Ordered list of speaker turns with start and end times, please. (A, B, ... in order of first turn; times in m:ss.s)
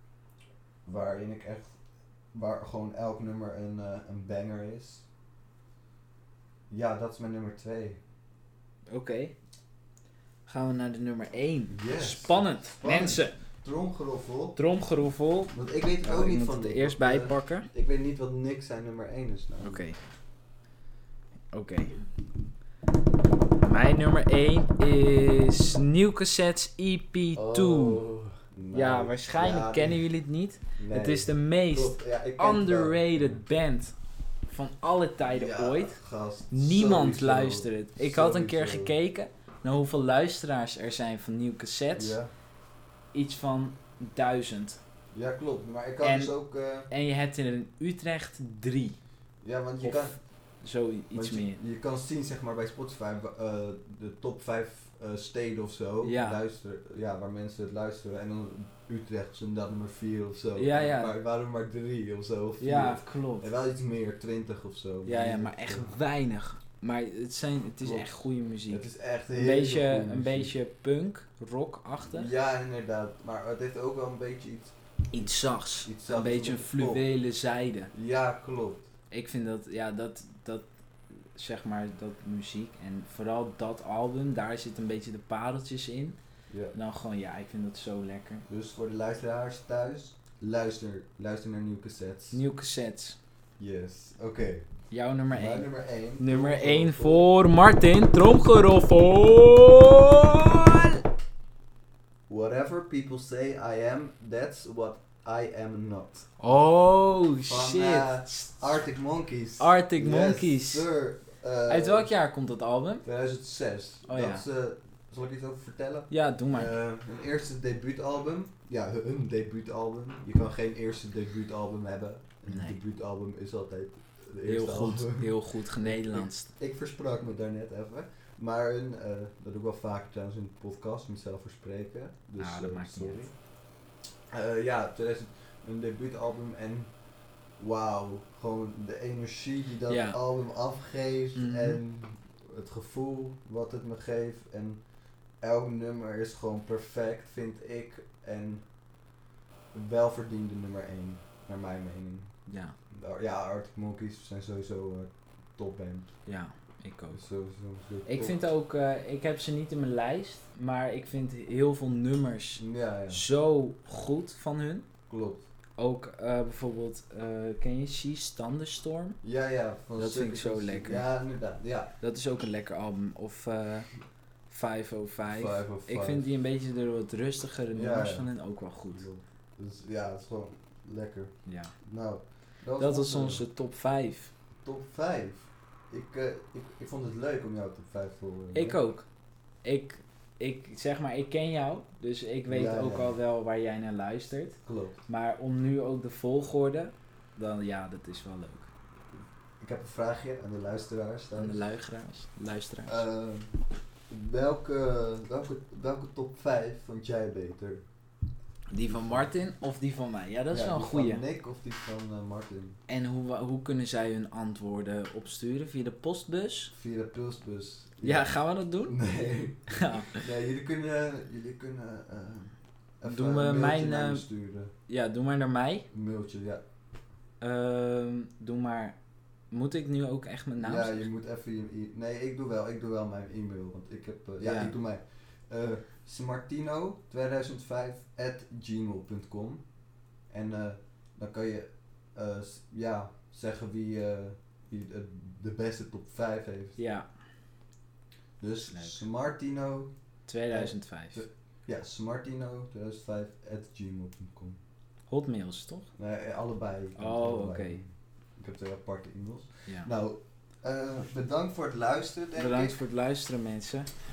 0:00.8-0:01.8 A
0:02.3-0:05.1 A
0:06.7-0:08.0 A
0:08.9-0:09.4 B
0:10.5-0:13.4 B
0:11.7-0:14.7 A
0:14.6-0:17.7 B
0:15.5-0:19.9 A
0:19.6-0:20.0 B
0:21.5-0:22.0 B
0:23.6-0:28.0 B
0:27.4-0:30.1 A
0:28.7-0:34.0 B
0:30.8-0:33.2 A
0:34.5-0:36.0 B
0:35.3-0:39.0 A
0:36.5-0:42.2 B
0:41.9-0:42.3 A
0:43.1-0:44.8 B
0:45.1-0:46.9 A
0:46.0-0:49.0 B
0:49.4-0:50.2 A
0:49.8-0:51.6 B
0:51.1-1:05.9 A
0:56.0-0:56.4 B
1:00.6-1:01.1 B
1:02.6-1:03.5 B
1:05.1-1:12.3 B
1:07.8-1:08.1 A
1:08.7-1:10.5 A
1:12.1-1:14.8 A
1:15.1-1:17.9 B
1:15.8-1:17.1 A
1:17.9-1:18.9 A
1:19.1-1:20.7 B
1:21.3-1:26.2 B
1:26.5-1:26.8 A
1:26.7-1:28.5 B
1:28.5-1:32.4 A
1:32.3-1:33.2 B
1:33.6-1:34.7 A
1:34.9-1:41.0 B
1:35.3-1:37.3 A
1:42.3-1:46.4 A
1:46.4-1:48.8 B
1:47.5-1:52.1 A
1:49.6-1:50.9 B
1:51.7-1:53.0 B
1:53.0-2:13.3 A
1:54.1-1:54.4 B
1:56.1-1:56.8 B
2:02.5-2:02.8 B
2:04.5-2:06.5 B
2:12.4-2:13.3 B
2:14.3-2:17.0 A
2:17.6-2:24.8 A
2:19.9-2:20.2 B
2:21.4-2:21.8 B
2:25.4-2:28.6 A
2:29.7-2:32.4 A
2:32.5-2:32.8 B
2:32.9-2:36.1 A
2:36.3-2:37.2 B
2:37.1-2:38.5 A
2:38.0-2:44.9 B
2:42.6-2:43.2 A
2:45.1-2:45.5 A
2:45.8-2:49.2 B
2:49.2-2:52.0 A
2:50.0-2:51.1 B
2:52.0-2:53.9 B
2:54.5-2:59.1 B
2:55.3-2:56.3 A
2:57.7-2:58.3 A
2:58.9-3:03.5 A
3:01.5-3:01.8 B
3:02.8-3:04.3 B
3:04.6-3:08.8 A
3:08.5-3:09.1 B
3:09.6-3:18.7 B
3:12.5-3:13.2 A
3:14.6-3:15.0 A
3:19.6-3:21.6 A
3:21.4-3:23.0 B
3:22.9-3:27.8 A
3:28.7-3:31.2 B
3:28.9-3:29.3 A
3:30.5-3:32.8 A
3:32.9-3:36.7 B
3:36.7-3:44.7 A
3:38.0-3:39.0 B
3:39.7-3:40.2 B
3:43.0-3:44.2 B
3:44.9-3:45.9 B
3:45.9-3:46.6 A
3:47.4-3:49.0 B
3:49.5-3:51.1 B
3:50.6-3:59.6 A
3:54.4-3:54.8 B
4:00.3-4:06.8 A
4:06.8-4:07.1 B
4:08.4-4:09.9 A
4:08.6-4:09.1 B
4:10.3-4:11.2 B
4:10.5-4:14.6 A
4:15.1-4:15.9 B
4:16.0-4:22.8 A
4:17.0-4:17.8 B
4:22.4-4:23.9 B